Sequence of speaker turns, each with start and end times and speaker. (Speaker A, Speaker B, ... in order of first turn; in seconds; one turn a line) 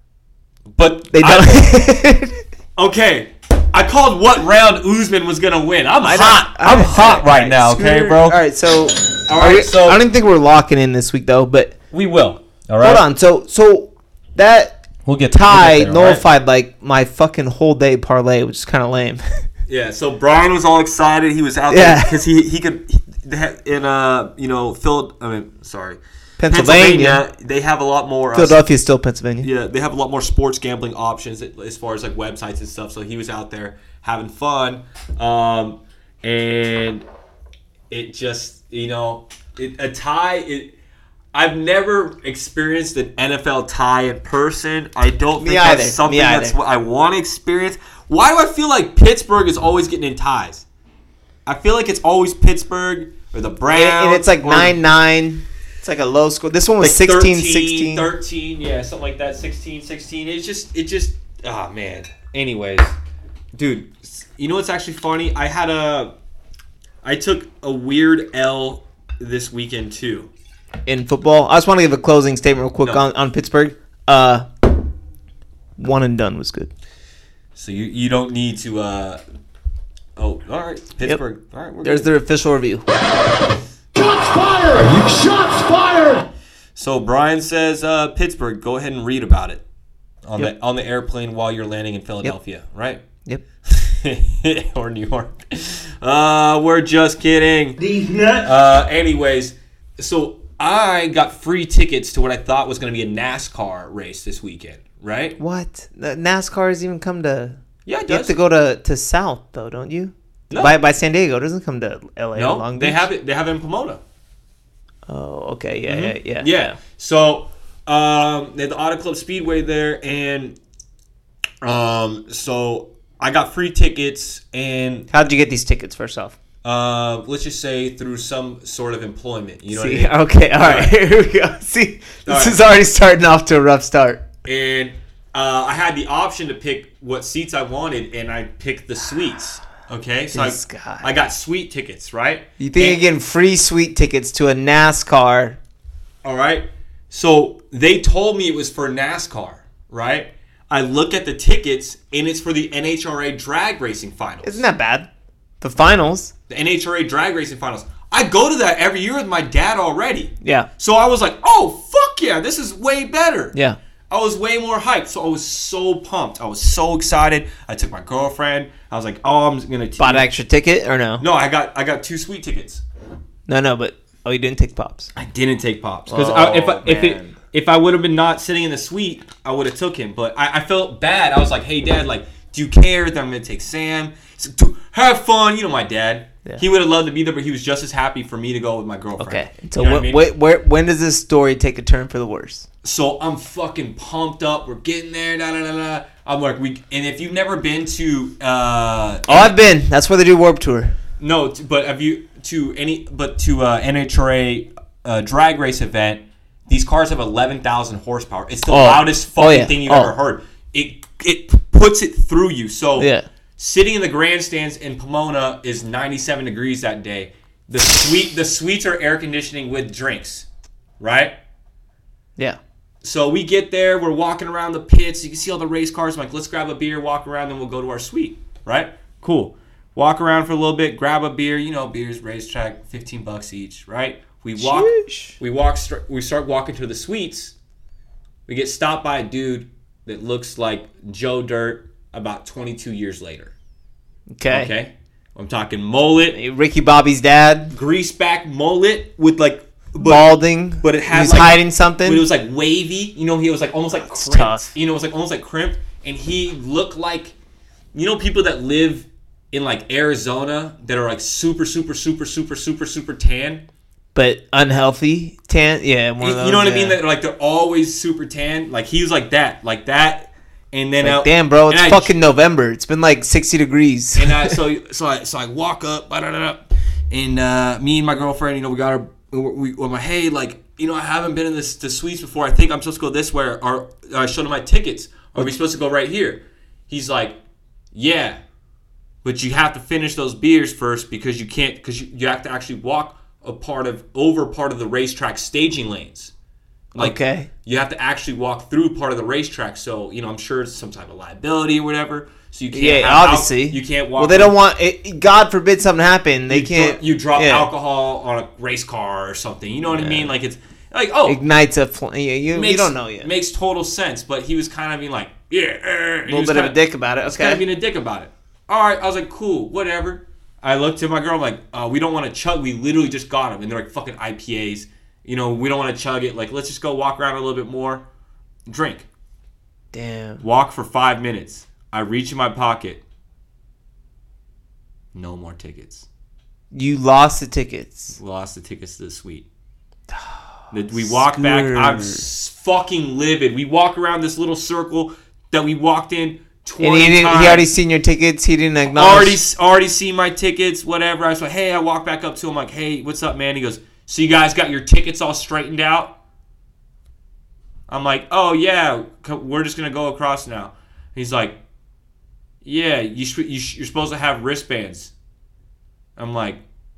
Speaker A: 0.7-1.7
Speaker B: 1.1-2.4
Speaker A: 2.8-8.4
Speaker B: 6.0-11.8
Speaker A: 9.3-10.0
Speaker A: 11.9-13.0
Speaker B: 12.8-19.4
Speaker A: 15.1-16.2
Speaker A: 19.7-28.6
Speaker B: 21.7-22.1
Speaker B: 26.4-27.2
Speaker B: 28.3-29.5
Speaker A: 29.4-37.0
Speaker A: 37.9-40.7
Speaker A: 41.3-50.6
Speaker B: 45.4-46.6
Speaker A: 51.5-54.8
Speaker B: 53.7-58.1
Speaker A: 56.8-62.9
Speaker A: 63.5-66.2
Speaker A: 67.0-70.3
Speaker B: 70.9-74.7
Speaker B: 75.8-76.7
Speaker A: 77.5-79.2
Speaker A: 80.2-82.1
Speaker B: 81.8-82.8
Speaker C: 83.9-86.3
Speaker A: 86.8-89.6
Speaker A: 90.2-93.0
Speaker A: 93.7-97.8
Speaker A: 98.4-105.4
Speaker B: 105.4-113.1
Speaker A: 107.9-108.4
Speaker A: 110.5-110.8
Speaker A: 112.3-114.0
Speaker B: 115.1-116.8
Speaker A: 115.9-120.6
Speaker A: 121.6-125.1
Speaker B: 125.1-126.4
Speaker A: 126.6-130.9
Speaker B: 129.7-134.2
Speaker A: 132.3-132.6
Speaker A: 134.4-143.0
Speaker B: 140.3-141.1
Speaker B: 142.6-145.6
Speaker A: 146.2-154.7
Speaker B: 154.4-155.1
Speaker B: 155.6-156.3
Speaker A: 156.5-163.6
Speaker B: 160.4-160.7
Speaker A: 164.1-170.3
Speaker B: 170.0-171.2
Speaker A: 171.2-172.8
Speaker B: 173.5-175.1
Speaker A: 175.2-190.3
Speaker B: 176.1-177.4
Speaker B: 189.2-192.7
Speaker A: 192.8-199.5
Speaker B: 199.3-201.0
Speaker A: 201.2-220.5
Speaker B: 208.7-210.1
Speaker B: 213.0-213.2
Speaker A: 221.0-221.4
Speaker A: 223.0-237.5
Speaker B: 234.6-235.4
Speaker A: 238.5-243.5
Speaker B: 244.3-244.7
Speaker A: 244.5-246.4
Speaker B: 246.3-247.8
Speaker A: 247.7-257.4
Speaker B: 250.0-252.2
Speaker B: 254.0-254.7
Speaker A: 257.9-263.6
Speaker B: 264.1-267.0
Speaker A: 266.2-272.1
Speaker B: 271.0-274.6
Speaker A: 274.2-287.4
Speaker A: 287.9-288.4
Speaker A: 289.2-296.3
Speaker A: 296.9-304.6
Speaker B: 297.0-297.5
Speaker B: 302.7-307.7
Speaker A: 306.5-311.4
Speaker B: 309.9-310.3
Speaker B: 311.3-313.3
Speaker A: 312.5-328.1
Speaker B: 316.3-317.6
Speaker A: 328.7-329.1
Speaker B: 329.9-330.4
Speaker A: 330.4-333.0
Speaker A: 335.1-336.1
Speaker B: 336.7-338.2
Speaker A: 338.2-339.5
Speaker A: 340.7-347.7
Speaker B: 341.0-342.2
Speaker B: 346.8-349.4
Speaker A: 348.9-356.2
Speaker A: 357.9-361.6
Speaker A: 362.6-365.1
Speaker A: 366.2-366.6